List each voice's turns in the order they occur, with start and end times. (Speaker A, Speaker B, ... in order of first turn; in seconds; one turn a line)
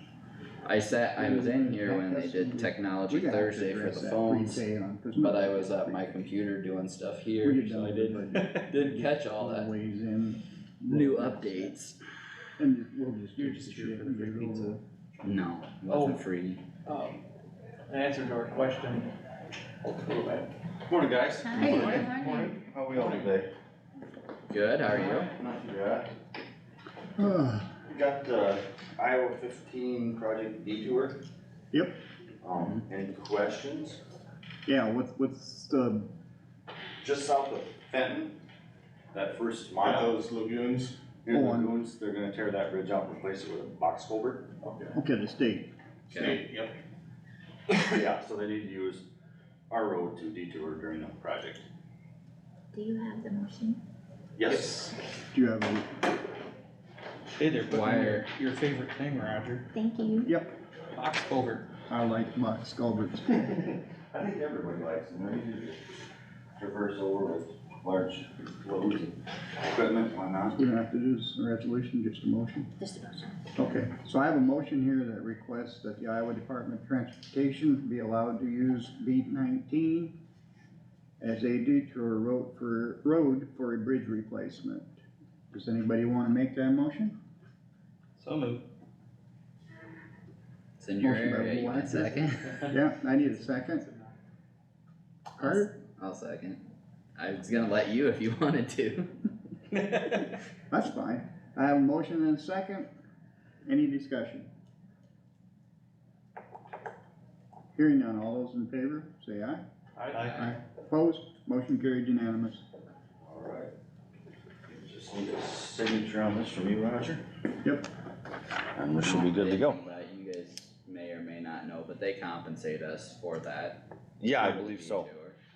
Speaker A: 0.6-4.6
Speaker B: 1.2-6.2
Speaker A: 5.1-9.7
Speaker B: 7.4-11.7
Speaker A: 10.9-12.0
Speaker B: 12.6-14.8
Speaker C: 13.4-14.7
Speaker A: 15.2-16.6
Speaker D: 16.9-17.2
Speaker D: 17.9-19.1
Speaker D: 20.0-20.5
Speaker E: 20.9-23.5
Speaker F: 21.6-22.4
Speaker G: 21.8-23.3
Speaker A: 24.5-25.3
Speaker E: 24.9-26.1
Speaker B: 27.2-27.8
Speaker E: 27.9-31.2
Speaker B: 31.7-32.0
Speaker E: 32.4-34.0
Speaker B: 34.6-36.1
Speaker E: 37.0-38.4
Speaker E: 39.1-40.2
Speaker G: 39.8-41.0
Speaker E: 41.2-44.5
Speaker B: 41.3-41.7
Speaker B: 44.9-45.7
Speaker A: 46.1-46.4
Speaker G: 46.1-46.8
Speaker E: 47.7-49.0
Speaker E: 49.7-51.7
Speaker F: 52.7-53.7
Speaker E: 54.4-54.9
Speaker B: 55.3-55.9
Speaker C: 57.4-59.7
Speaker A: 57.6-58.3
Speaker F: 59.7-60.2
Speaker B: 60.2-60.5
Speaker C: 60.9-61.7
Speaker B: 61.9-63.4
Speaker E: 63.4-65.8
Speaker E: 66.6-70.6
Speaker B: 70.5-72.7
Speaker F: 72.8-73.3
Speaker B: 73.5-80.1
Speaker B: 81.2-85.0
Speaker B: 85.5-87.2
Speaker C: 88.2-88.7
Speaker A: 90.8-92.6
Speaker B: 91.0-93.8
Speaker D: 93.8-94.1
Speaker B: 95.4-95.7
Speaker A: 95.4-96.6
Speaker A: 97.2-99.3
Speaker B: 100.7-102.9
Speaker B: 103.6-104.5
Speaker B: 107.7-109.6
Speaker C: 110.1-110.4
Speaker B: 110.3-112.6
Speaker E: 113.2-113.7
Speaker E: 114.7-117.2
Speaker E: 118.7-119.8
Speaker A: 119.0-125.4
Speaker E: 124.2-125.1